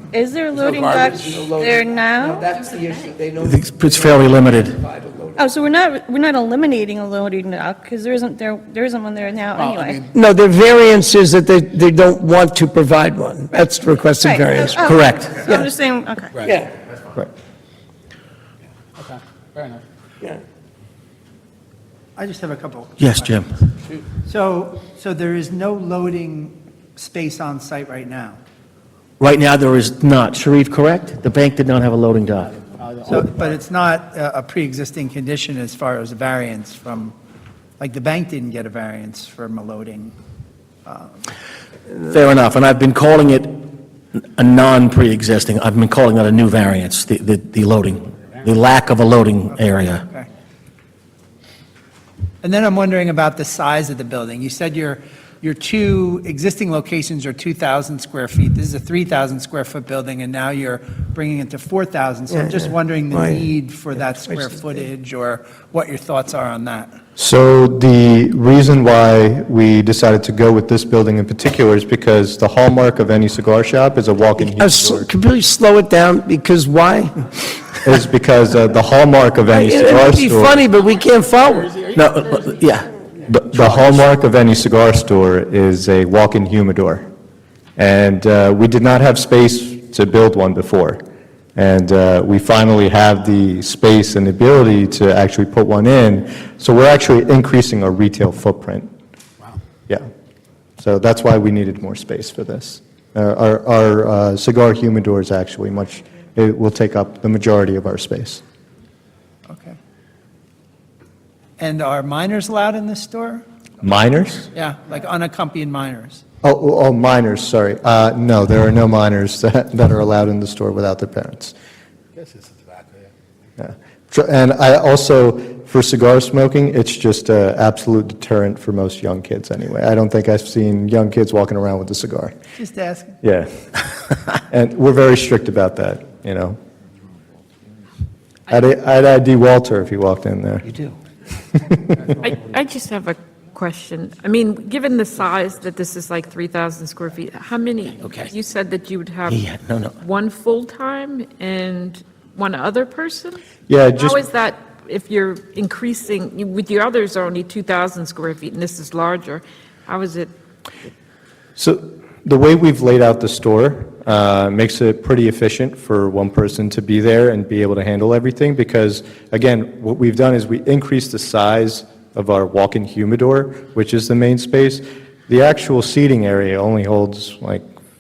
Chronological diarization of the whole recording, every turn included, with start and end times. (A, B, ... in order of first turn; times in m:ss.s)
0:00.1-0:02.7 A
0:00.5-0:05.5 B
0:03.4-0:04.8 C
0:05.4-0:10.1 A
0:09.6-0:10.0 D
0:10.1-0:14.8 E
0:14.2-0:16.5 A
0:14.8-0:15.4 C
0:16.4-0:16.7 E
0:19.0-0:19.8 D
0:22.2-0:23.3 F
0:23.0-0:23.6 C
0:24.2-0:28.4 F
0:29.2-0:32.6 C
0:32.8-0:33.2 D
0:33.1-0:37.2 F
0:37.8-0:40.1 F
0:40.9-0:41.1 F
0:42.0-0:43.7 C
0:44.4-0:50.0 C
0:49.6-0:50.3 F
0:52.4-1:07.0 F
1:02.3-1:03.4 E
1:07.2-1:15.1 G
1:14.4-1:17.2 E
1:17.8-1:20.6 G
1:19.5-1:21.7 E
1:21.6-1:22.0 D
1:21.9-1:22.9 C
1:23.3-1:27.1 G
1:23.5-1:23.9 D
1:27.8-1:31.0 G
1:31.6-1:38.9 G
1:40.8-1:48.4 G
1:49.5-1:49.8 F
1:51.6-1:53.4 F
1:53.8-1:54.5 G
1:54.5-1:56.2 F
1:56.4-2:01.5 G
2:02.2-2:03.1 D
2:03.6-2:12.4 G
2:12.6-2:13.2 F
2:13.2-2:13.6 G
2:14.5-2:16.6 G
2:18.5-2:20.8 G
2:22.2-2:29.4 H
2:28.0-2:28.3 C
2:29.3-2:30.0 C
2:30.0-2:33.4 H
2:33.7-2:34.2 G
2:34.0-2:40.3 H
2:41.6-2:57.7 G